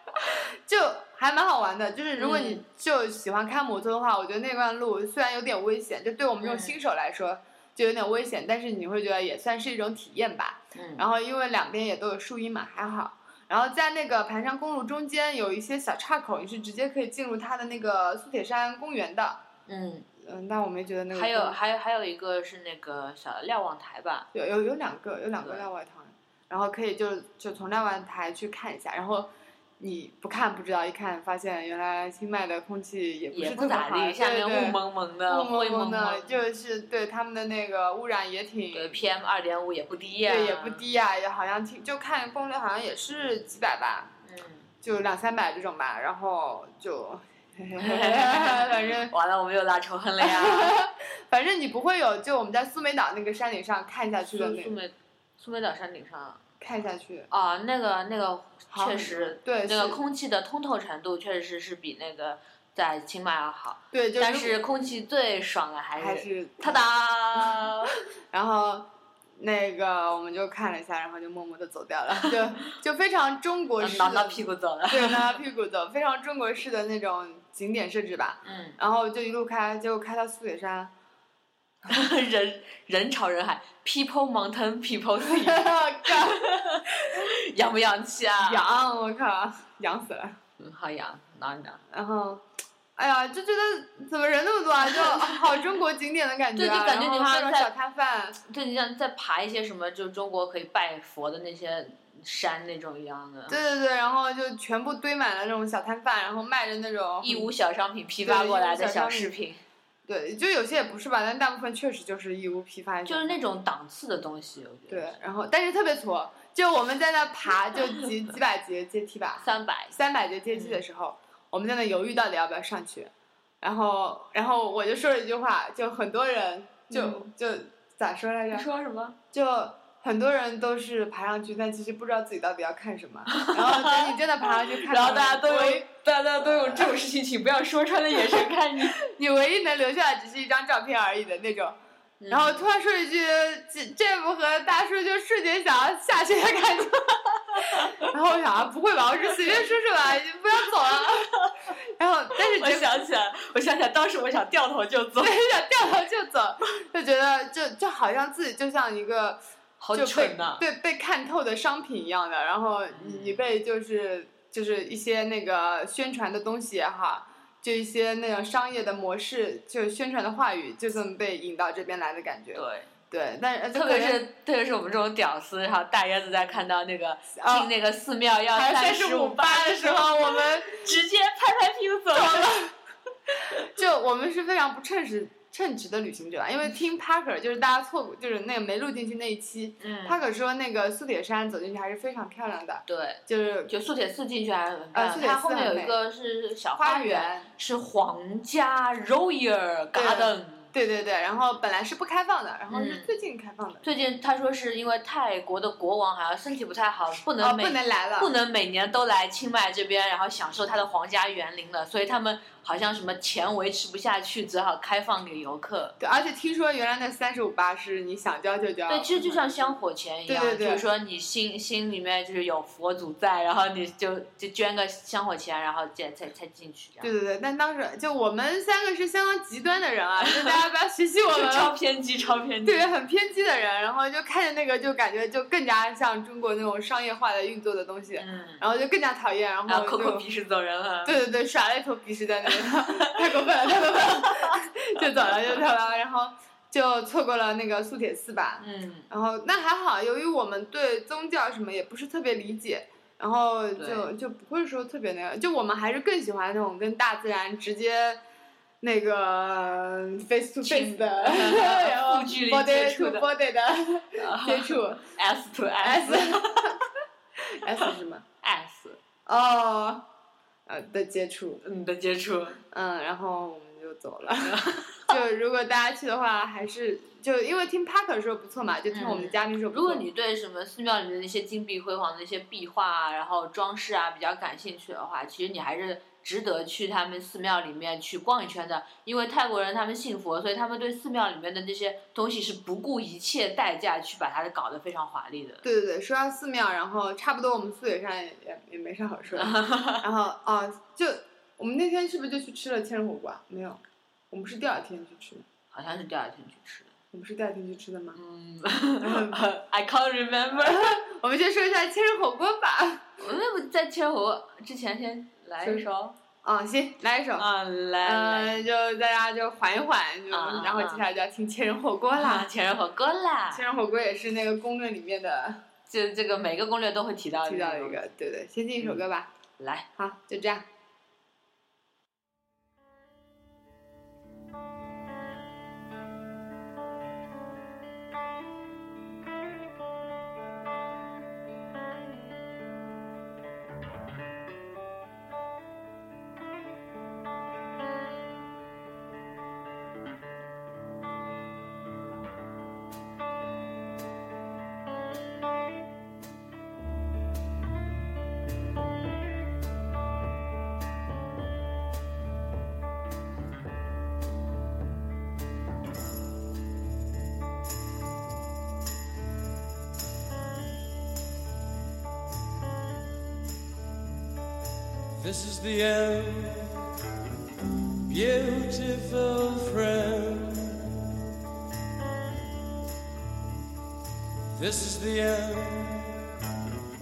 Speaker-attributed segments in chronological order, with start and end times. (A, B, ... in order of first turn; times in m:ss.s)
0:00.6-0:19.4 A
0:02.2-0:02.6 B
0:06.4-0:06.8 B
0:10.8-0:11.0 B
0:19.7-0:20.1 B
0:20.2-0:21.6 A
0:21.1-0:24.3 B
0:24.3-0:39.0 A
0:25.4-0:25.7 B
0:33.3-0:36.4 B
0:38.7-0:40.8 B
0:40.2-0:44.1 A
0:44.3-0:44.7 B
0:44.8-0:49.1 A
0:47.8-0:50.8 B
0:50.2-0:54.8 A
0:54.3-0:56.4 B
0:56.6-0:57.3 A
0:57.3-1:08.0 B
0:58.7-1:00.0 A
1:03.9-1:04.6 A
1:06.0-1:06.9 A
1:08.3-1:20.9 A
1:13.8-1:15.4 B
1:18.4-1:18.8 B
1:21.9-1:28.6 B
1:25.2-1:26.4 A
1:28.4-1:30.4 A
1:30.6-1:31.8 B
1:31.9-1:32.4 A
1:33.0-1:38.4 A
1:34.9-1:35.4 B
1:36.6-1:37.7 B
1:38.5-1:43.6 B
1:43.5-1:47.5 A
1:47.2-1:49.6 B
1:48.2-1:49.3 A
1:50.1-1:53.4 A
1:53.1-1:55.2 B
1:54.9-2:08.7 A
1:59.4-2:00.0 B
2:00.5-2:00.8 B
2:06.9-2:07.3 B
2:08.5-2:09.2 B
2:09.3-2:15.9 A
2:13.3-2:19.0 B
2:16.4-2:16.9 A
2:19.0-2:21.8 A
2:22.2-2:22.7 B
2:22.3-2:27.1 A
2:27.5-2:28.1 B
2:27.6-2:31.3 A
2:30.9-2:31.5 B
2:32.0-2:33.0 A
2:32.4-2:35.4 B
2:35.2-2:39.4 A
2:39.8-2:40.6 B
2:39.9-2:54.2 A
2:42.9-2:43.4 B
2:52.6-2:52.9 B
2:53.7-3:02.7 B
2:57.4-2:57.7 A
2:58.5-3:00.8 A
3:02.1-3:02.7 A
3:03.6-3:13.7 A
3:09.8-3:10.2 B
3:12.9-3:20.7 B
3:14.9-3:16.0 A
3:16.8-3:17.5 A
3:19.9-3:23.9 A
3:22.7-3:23.1 B
3:23.8-3:36.0 B
3:27.4-3:28.3 A
3:36.0-3:39.7 A
3:38.9-3:47.1 B
3:40.3-3:40.9 A
3:47.0-3:51.8 A
3:50.2-3:50.6 B
3:51.3-3:52.9 B
3:52.6-4:00.2 A
3:58.2-3:58.6 B
3:59.7-4:01.2 B
4:01.0-4:18.2 A
4:02.5-4:03.2 B
4:03.9-4:04.6 B
4:08.6-4:09.1 B
4:13.8-4:14.1 B
4:18.8-4:25.1 A
4:20.6-4:23.3 B
4:24.2-4:26.8 B
4:25.8-4:26.8 A
4:27.4-4:28.2 A
4:28.4-4:29.0 B
4:29.3-4:30.1 A
4:30.7-4:31.6 A
4:31.6-4:32.6 B
4:32.7-4:40.1 A
4:34.4-4:35.2 B
4:38.9-4:55.6 B
4:55.6-5:05.4 A
4:59.4-5:00.0 B
5:05.7-5:06.9 B
5:07.1-5:08.2 A
5:08.2-5:11.0 B
5:09.0-5:09.4 A
5:10.6-5:13.2 A
5:13.2-5:16.2 B
5:15.6-5:15.9 A
5:16.4-5:17.5 A
5:17.4-5:18.7 B
5:18.0-5:22.5 A
5:20.3-5:21.0 B
5:22.1-5:23.6 B
5:23.5-5:25.6 A
5:25.9-5:28.0 B
5:27.5-5:29.3 A
5:29.6-5:29.9 B
5:30.0-5:30.7 A
6:15.2-6:16.8 C
6:18.1-6:20.9 C
6:24.6-6:26.2 C